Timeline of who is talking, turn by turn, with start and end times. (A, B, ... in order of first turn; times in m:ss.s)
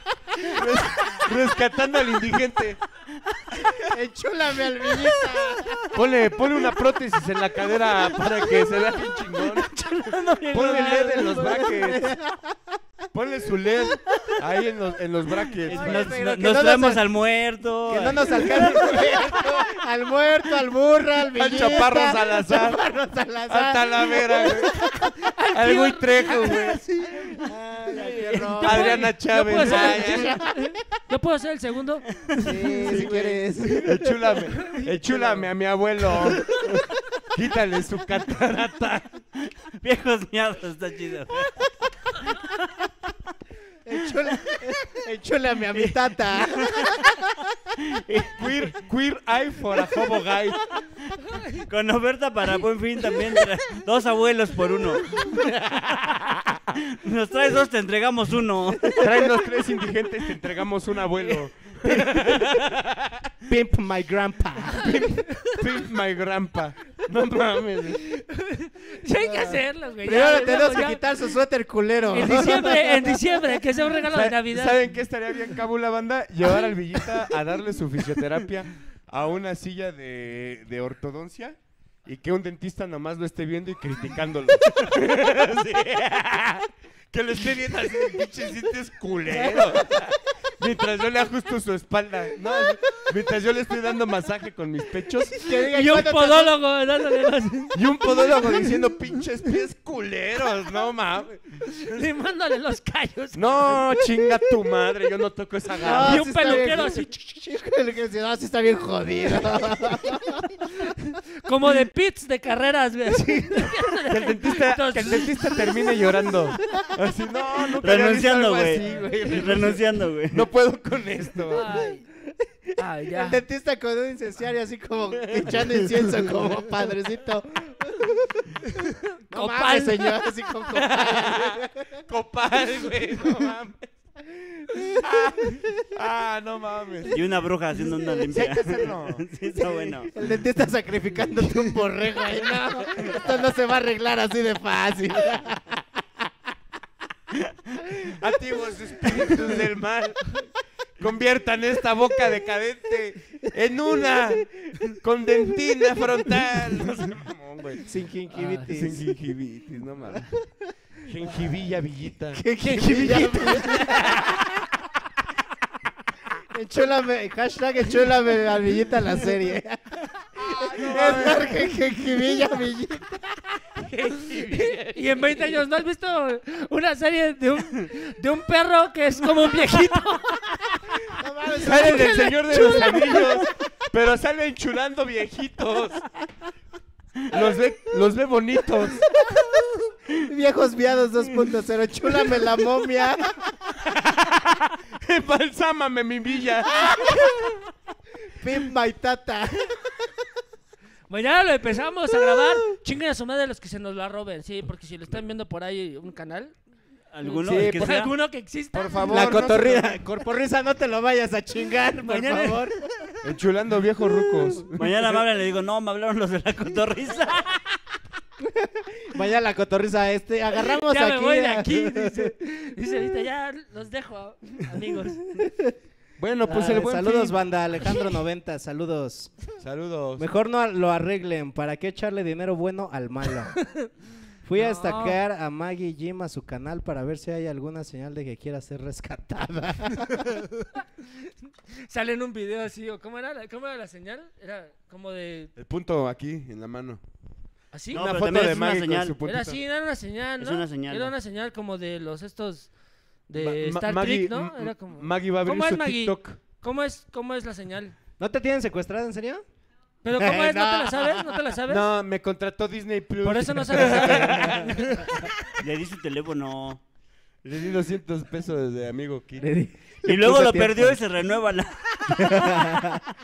0:00.4-0:02.8 A
0:03.6-0:05.9 B
0:05.9-0:09.7 A
0:08.2-0:11.3 C
0:10.5-0:12.1 A
0:10.6-0:12.8 B
0:13.1-0:16.2 A
0:15.6-0:19.1 C
0:15.6-0:17.0 B
0:17.9-0:25.1 B
0:18.6-0:19.2 D
0:21.3-0:22.8 A
0:23.5-0:26.8 A
0:25.2-0:27.3 D
0:27.1-0:29.1 B
0:28.0-0:28.4 C
0:28.5-0:33.1 D
0:28.6-0:30.4 A
0:29.7-0:30.1 B
0:32.1-0:33.1 C
0:32.4-0:34.0 B
0:32.8-0:39.1 A
0:34.7-0:35.5 B
0:39.4-0:42.7 C
0:43.8-0:47.3 B
0:45.7-0:47.2 C
0:47.8-0:48.6 C
0:48.4-0:50.6 A
0:51.3-0:51.6 D
0:51.5-0:59.4 C
0:53.1-0:53.4 D
0:58.9-1:03.3 A
1:03.4-1:05.1 B
1:04.7-1:08.0 A
1:08.0-1:11.0 D
1:09.2-1:13.8 B
1:12.1-1:14.8 D
1:14.0-1:35.3 A
1:35.3-1:38.7 D
1:35.4-1:36.6 B
1:37.7-1:41.4 A
1:41.6-1:44.4 D
1:43.3-1:46.8 A
1:45.8-1:50.9 B
1:45.8-1:47.1 D
1:51.4-1:56.3 D
1:54.1-2:01.8 A
1:57.8-2:00.5 C
2:01.5-2:02.0 D
2:02.8-2:08.6 B
2:02.8-2:03.4 D
2:05.3-2:06.5 A
2:08.8-2:10.3 D
2:09.3-2:12.0 B
2:10.7-2:13.9 A
2:14.3-2:15.1 B
2:15.0-2:17.2 A
2:17.1-2:20.1 C
2:18.3-2:19.2 A
2:19.6-2:25.8 B
2:28.1-2:30.4 A
2:31.0-2:37.9 A
2:37.8-2:39.0 B
2:38.3-2:38.7 D
2:38.7-2:40.3 A
2:41.0-2:44.3 A
2:42.3-2:44.4 B
2:42.7-2:44.3 D
2:46.5-2:55.3 B
2:50.4-2:51.7 A
2:53.8-3:01.0 D
3:01.1-3:03.4 B
3:01.6-3:06.0 A
3:01.6-3:03.3 D
3:07.3-3:09.0 A
3:10.1-3:13.4 B
3:14.9-3:17.5 A
3:18.3-3:19.8 B
3:21.1-3:26.5 D
3:27.1-3:28.1 C
3:27.2-3:29.3 D
3:27.4-3:28.0 A
3:28.7-3:29.9 A
3:29.1-3:33.1 B
3:32.0-3:32.7 D
3:33.2-3:35.2 A
3:34.7-3:37.6 C
3:38.4-3:42.3 B
3:40.5-3:45.4 D
3:45.4-3:45.7 B
3:46.2-3:47.4 A
3:46.4-3:49.3 B
3:49.6-3:50.3 A
3:50.2-3:53.5 B
3:53.6-3:53.9 D
3:54.4-4:00.4 B
3:54.6-3:55.2 D
4:00.6-4:05.5 D
4:05.6-4:07.0 A
4:07.7-4:08.2 D
4:07.9-4:09.2 C
4:07.9-4:09.6 A
4:09.2-4:12.7 D
4:10.4-4:11.1 C
4:13.3-4:18.0 D
4:13.3-4:16.4 A
4:18.2-4:19.4 B
4:20.0-4:21.8 D
4:20.1-4:21.4 B
4:21.6-4:24.8 A
4:23.2-4:25.2 D
4:23.9-4:24.7 B
4:25.5-4:26.8 C
4:27.4-4:29.4 A
4:29.4-4:31.0 B
4:30.0-4:33.0 C
4:32.1-4:33.0 B